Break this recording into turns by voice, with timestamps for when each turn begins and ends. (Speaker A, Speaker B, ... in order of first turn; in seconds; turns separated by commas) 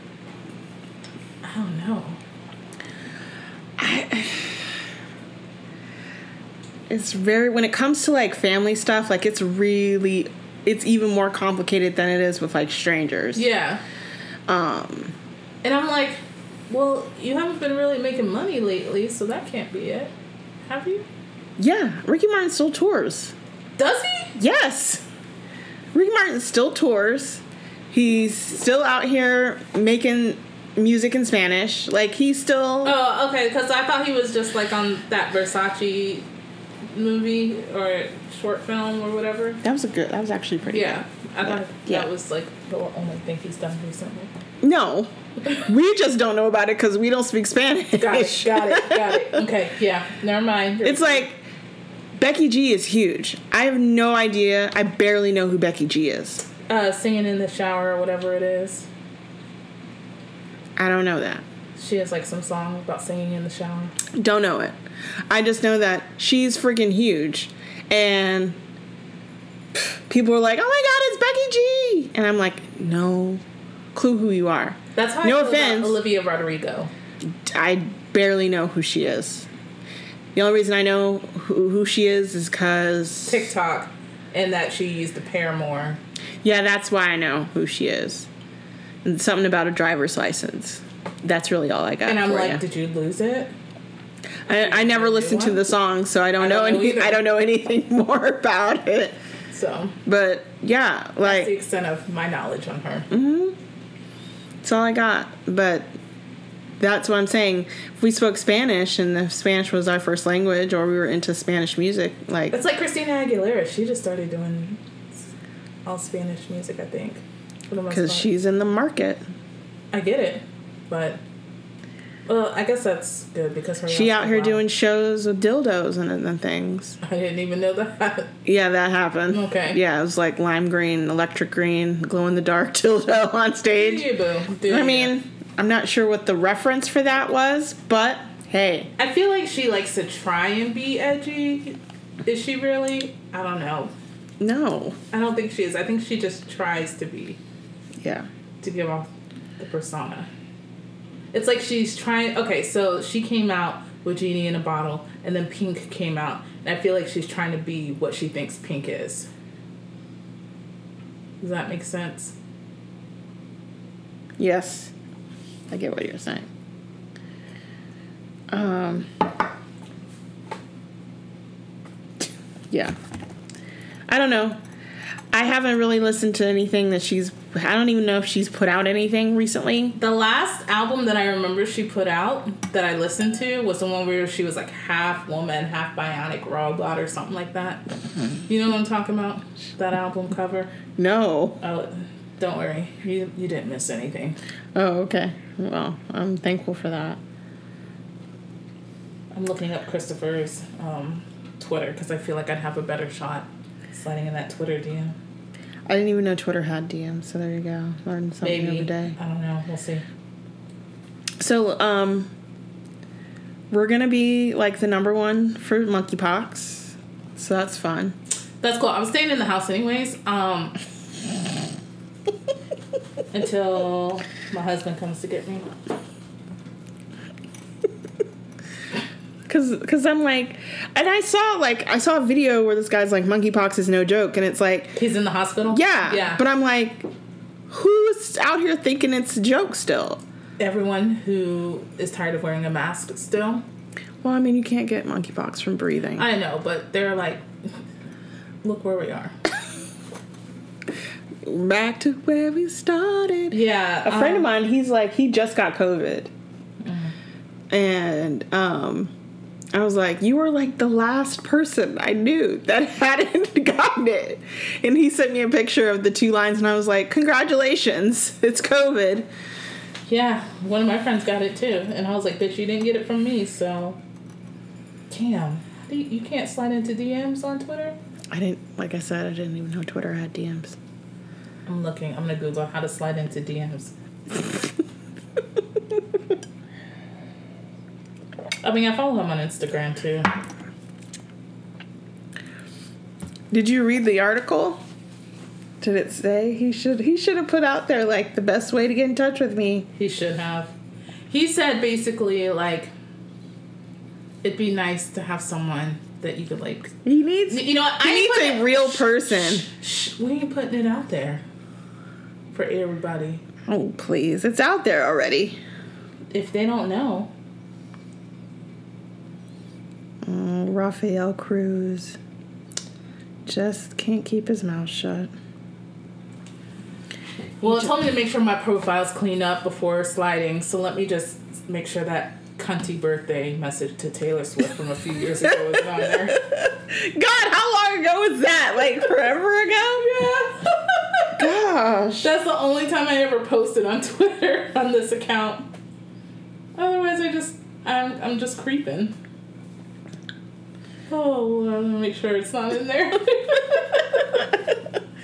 Speaker A: 1.4-2.2, Speaker B: 3.8-4.8, Speaker B: 6.9-13.4, Speaker A: 13.3-13.8, Speaker B: 14.5-15.1, Speaker A: 15.6-20.1, Speaker A: 20.7-21.1, Speaker B: 21.6-23.3, Speaker A: 23.8-24.4, Speaker B: 24.4-25.1, Speaker B: 25.9-33.0, Speaker A: 32.8-36.3, Speaker A: 36.9-39.6, Speaker B: 39.6-42.1, Speaker A: 40.7-44.3, Speaker B: 44.6-49.4, Speaker A: 48.0-51.3, Speaker B: 50.8-51.4, Speaker B: 52.2-56.4, Speaker A: 56.7-58.9, Speaker B: 60.8-61.4, Speaker A: 61.8-63.9, Speaker B: 64.1-64.8, Speaker B: 65.3-68.6, Speaker B: 69.7-73.4, Speaker B: 73.9-76.0, Speaker A: 75.0-76.9, Speaker B: 77.3-79.5, Speaker B: 80.3-83.5, Speaker A: 83.3-86.0, Speaker B: 86.4-88.3, Speaker B: 89.0-92.6, Speaker A: 92.1-93.5, Speaker B: 94.5-99.2, Speaker A: 94.5-95.6, Speaker A: 96.4-97.2, Speaker A: 99.5-100.0, Speaker B: 100.1-101.5, Speaker A: 101.2-103.1, Speaker B: 103.1-103.6, Speaker B: 104.6-105.9, Speaker B: 106.8-112.6, Speaker A: 112.5-114.8, Speaker A: 115.9-118.3, Speaker B: 117.9-119.2, Speaker A: 119.9-121.2, Speaker A: 122.3-124.6, Speaker B: 123.9-127.0, Speaker A: 127.0-128.3, Speaker B: 128.4-134.1, Speaker A: 129.3-129.8, Speaker A: 133.8-135.1, Speaker B: 134.7-138.9, Speaker A: 139.0-143.9, Speaker B: 144.4-145.0, Speaker A: 145.1-147.4, Speaker B: 148.0-148.3, Speaker A: 148.6-150.3, Speaker A: 151.3-159.3, Speaker A: 161.4-162.3, Speaker B: 164.4-164.9, Speaker B: 165.7-166.5, Speaker B: 168.5-169.1, Speaker B: 174.1-174.6, Speaker B: 175.3-180.0, Speaker A: 179.9-187.8, Speaker A: 188.5-190.7, Speaker B: 191.0-191.6, Speaker A: 191.6-194.4, Speaker B: 194.8-197.2, Speaker A: 199.3-205.2, Speaker B: 205.9-209.2, Speaker A: 208.4-210.0, Speaker B: 211.4-212.3, Speaker B: 213.7-218.2, Speaker A: 218.6-220.8, Speaker A: 223.3-225.7, Speaker B: 229.5-235.0, Speaker A: 235.0-236.4, Speaker B: 235.7-237.0, Speaker B: 237.7-240.2, Speaker A: 240.6-243.6, Speaker B: 244.2-246.3, Speaker A: 246.2-247.5, Speaker A: 248.6-249.4, Speaker B: 251.4-256.3, Speaker A: 253.5-254.5, Speaker A: 256.8-257.1, Speaker B: 257.7-259.1, Speaker B: 259.7-269.3, Speaker A: 270.1-274.0, Speaker A: 275.1-278.0, Speaker B: 278.3-280.8, Speaker A: 281.7-283.9, Speaker A: 288.6-290.3, Speaker B: 293.5-294.8, Speaker B: 295.8-299.9, Speaker A: 300.0-300.7, Speaker A: 301.3-302.9, Speaker A: 304.4-306.9, Speaker B: 307.1-309.6, Speaker A: 307.5-311.4, Speaker A: 312.5-313.4, Speaker B: 313.7-315.6, Speaker A: 316.3-317.3, Speaker B: 320.2-322.2, Speaker B: 323.5-325.3, Speaker A: 327.6-336.4, Speaker B: 335.4-340.1, Speaker A: 339.8-341.4, Speaker B: 341.4-342.3, Speaker A: 342.2-345.7, Speaker A: 346.8-349.1, Speaker A: 351.1-354.6